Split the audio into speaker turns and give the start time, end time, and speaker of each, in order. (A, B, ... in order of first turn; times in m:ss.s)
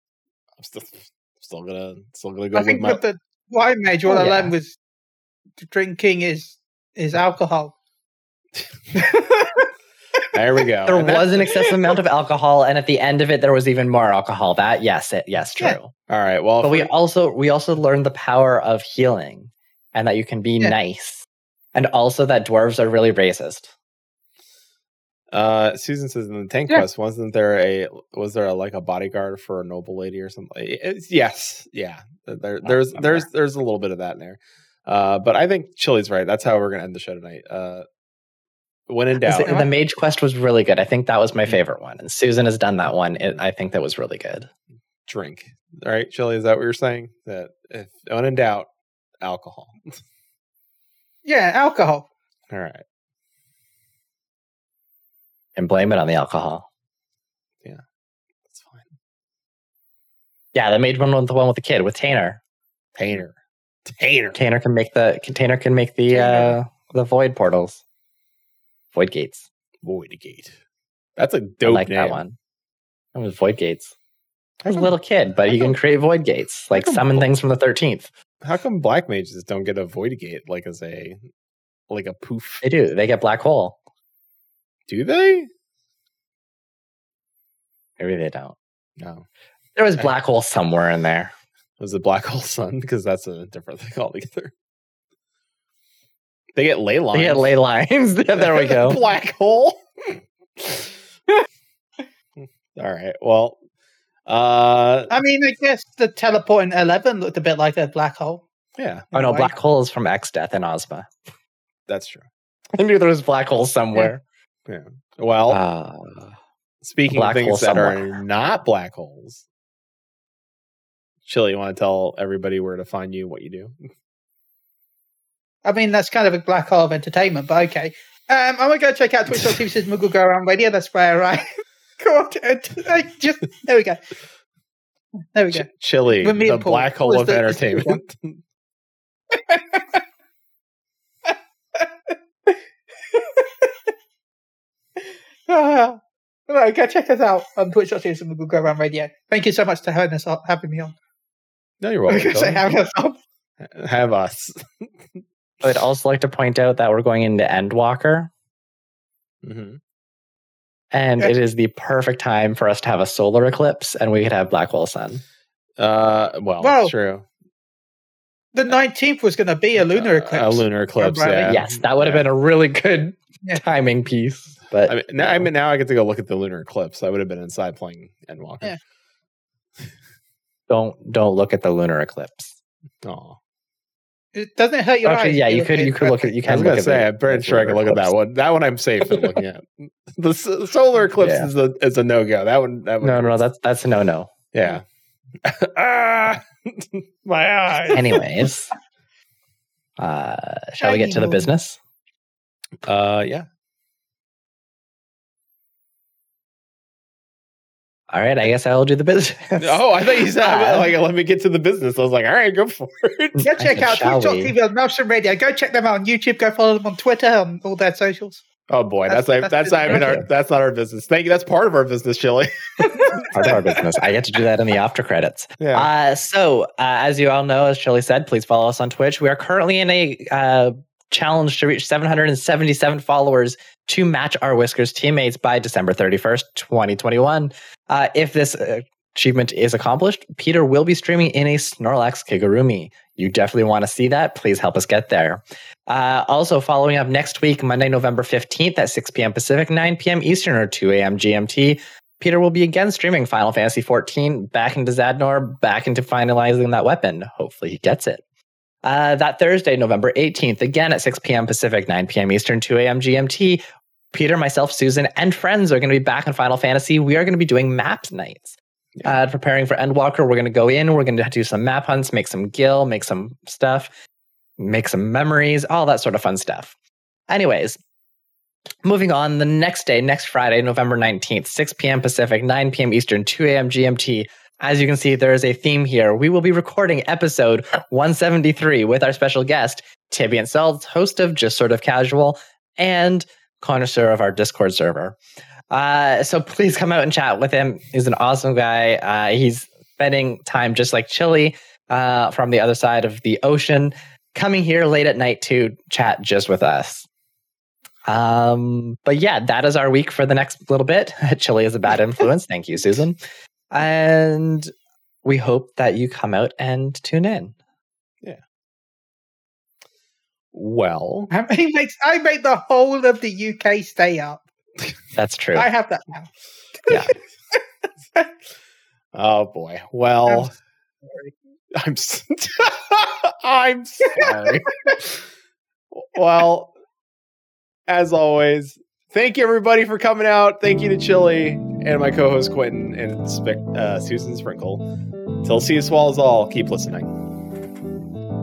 0:00.6-0:03.0 A
0:02.5-0:04.8 B
0:04.1-0:04.5 C
0:05.6-0:07.7 B
0:09.0-0:09.7 B
0:10.3-0:11.6 A
0:10.9-0:15.9 C
0:16.1-0:16.9 A
0:16.6-0:23.7 C
0:25.3-0:37.9 A
0:32.6-0:33.3 C
0:38.9-0:39.6 A
0:39.2-0:44.5 C
0:39.4-0:39.7 B
0:45.1-0:48.7 A
0:49.2-0:50.0 A
0:51.2-0:52.1 B
0:52.5-0:52.8 A
0:55.6-0:56.7 C
0:58.5-0:58.9 A
1:00.5-1:02.4 C
1:03.0-1:03.4 A
1:03.9-1:04.4 A
1:04.4-1:07.8 C
1:06.1-1:06.6 B
1:08.9-1:09.5 C
1:09.8-1:10.6 A
1:11.2-1:12.2 A
1:11.6-1:12.4 C
1:13.1-1:13.9 C
1:14.7-1:18.1 C
1:16.7-1:17.3 A
1:18.4-1:21.2 A
1:21.9-1:22.6 A
1:22.6-1:23.8 C
1:24.9-1:25.5 A
1:28.0-1:28.6 C
1:29.0-1:29.2 A
1:29.8-1:31.3 C
1:31.8-1:34.5 A
1:36.6-1:37.6 A
1:37.1-1:39.0 C
1:38.4-1:40.9 A
1:42.4-1:43.6 A
1:44.3-1:45.2 A
1:45.1-1:48.4 B
1:48.8-1:49.1 A
1:49.1-1:49.5 B
1:49.1-1:51.1 C
1:51.9-1:52.3 A
1:52.7-1:54.2 C
1:54.7-1:55.6 A
1:55.5-1:56.4 C
1:56.8-1:59.4 A
1:57.1-1:58.2 C
2:01.3-2:03.9 A
2:05.6-2:14.0 B
2:15.3-2:18.0 B
2:15.5-2:18.4 A
2:19.3-2:20.0 B
2:21.3-2:21.9 B
2:23.1-2:23.7 B
2:25.0-2:31.0 B
2:31.8-2:32.6 A
2:32.1-2:33.2 B
2:33.6-2:34.9 A
2:35.6-2:38.3 C
2:39.4-2:39.8 A
2:40.9-2:45.2 C
2:45.8-2:47.3 A
2:46.6-2:46.9 B
2:48.5-2:51.6 B
2:49.8-2:52.3 A
2:51.5-2:55.5 C
2:54.9-2:58.8 A
3:00.7-3:02.6 C
3:03.0-3:03.4 A
3:04.3-3:06.4 B
3:05.0-3:08.1 C
3:06.5-3:13.4 A
3:11.2-3:11.5 C
3:13.0-3:14.3 C
3:14.5-3:14.8 A
3:15.4-3:18.2 A
3:17.9-3:18.7 C
3:20.0-3:21.8 C
3:20.8-3:21.5 B
3:22.8-3:23.5 A
3:28.1-3:29.8 C
3:29.6-3:33.4 A
3:30.4-3:30.8 C
3:33.4-3:34.5 C
3:33.4-3:38.4 B
3:38.7-3:43.6 A
3:39.1-3:40.0 B
3:39.9-3:40.2 C
3:42.9-3:43.4 B
3:43.3-4:18.2 C
3:45.6-3:45.9 A
4:18.8-4:33.9 C
4:34.6-4:36.7 C
4:37.3-4:37.8 C
4:38.8-4:55.2 C
4:55.7-5:07.1 C
5:08.1-5:13.2 C
5:13.7-5:14.7 C
5:15.2-5:17.6 C
5:20.5-5:21.3 A
5:21.3-5:24.4 B
5:25.2-5:25.7 C
5:25.6-5:26.3 B
5:26.8-5:27.1 B
5:26.9-5:27.1 C
5:29.1-5:30.5 A
5:31.1-5:31.3 B
5:31.8-5:35.2 A
5:35.9-5:36.7 A
5:37.9-5:44.9 A
5:45.4-5:47.1 A